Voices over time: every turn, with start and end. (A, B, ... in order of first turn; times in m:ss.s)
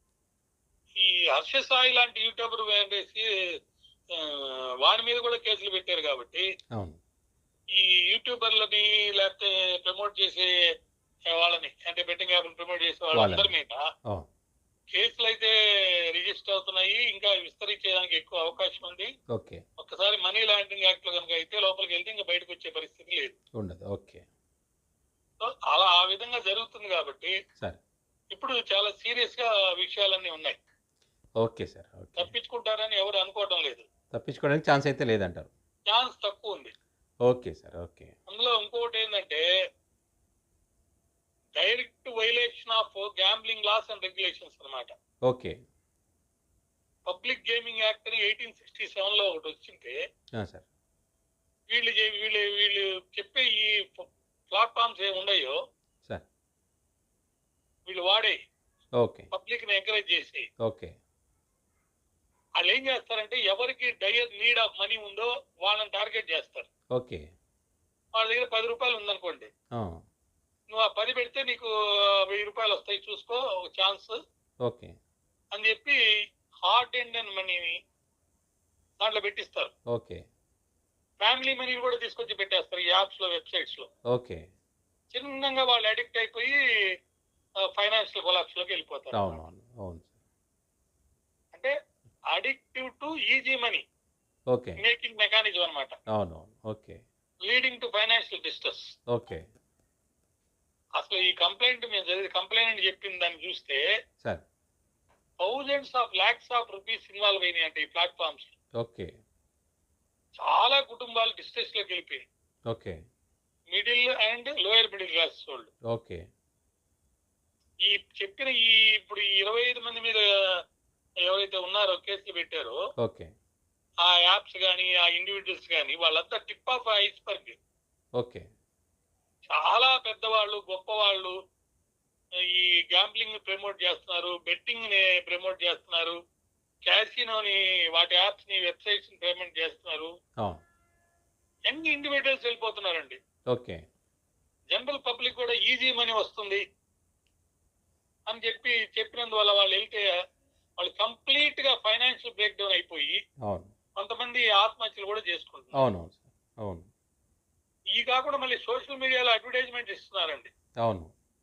0:01.0-0:03.2 A
0:04.2-0:06.4 A
0:07.7-0:10.5 A
0:11.3-0:13.8 A
0:13.1-0:13.5 B
0:14.9-0:15.5 A
0:16.1-0:19.1 A
0:19.3-0:19.6 B
0:19.8-0:23.4 A
0:23.5-0:24.2 B
0:25.4-0:27.3 A
0:28.3-0:30.6 A
0:31.4-0:32.3 B
0:32.2-0:33.8 A
0:34.1-0:35.5 B
0:35.9-0:36.7 A
0:37.2-0:38.1 B
0:38.3-0:39.4 A
0:41.6-0:44.9 A
0:45.2-0:45.6 B
0:47.1-0:50.0 A
0:50.4-0:50.6 B
0:51.7-0:55.6 A
0:57.8-0:58.4 A
0:59.0-0:59.3 B
0:59.3-1:00.5 A
1:00.6-1:00.9 B
1:02.6-1:06.7 A
1:06.9-1:07.3 B
1:08.2-1:09.5 A
1:09.7-1:10.0 B
1:10.7-1:11.7 A
1:12.3-1:14.2 A
1:14.6-1:15.0 B
1:15.5-1:16.0 A
1:16.6-1:17.8 A
1:19.0-1:19.7 A
1:19.9-1:20.2 B
1:21.2-1:23.9 A
1:24.1-1:24.4 B
1:25.1-1:26.5 A
1:27.8-1:29.4 A
1:29.1-1:30.1 B
1:32.3-1:33.8 A
1:34.5-1:34.8 B
1:34.8-1:35.9 A
1:36.1-1:37.0 B
1:37.4-1:38.9 A
1:39.1-1:39.4 B
1:41.0-1:43.8 A
1:45.4-1:48.5 A
1:48.8-1:49.1 B
1:50.4-1:52.2 A
1:52.7-1:53.0 B
1:53.7-1:55.7 A
1:55.9-1:56.2 B
1:57.8-2:00.2 A
2:01.3-2:02.8 A
2:03.0-2:03.3 B
2:04.0-2:07.6 A
2:08.2-2:08.4 B
2:09.5-2:11.3 A
2:12.5-2:16.2 A
2:16.8-2:20.1 A
2:21.7-2:23.2 A
2:23.5-2:23.8 B
2:24.7-2:26.6 A
2:28.3-2:30.1 A
2:30.8-2:33.2 A
2:33.4-2:33.7 B
2:34.0-2:35.8 A
2:35.7-2:36.9 B
2:38.0-2:40.5 A
2:40.8-2:41.1 B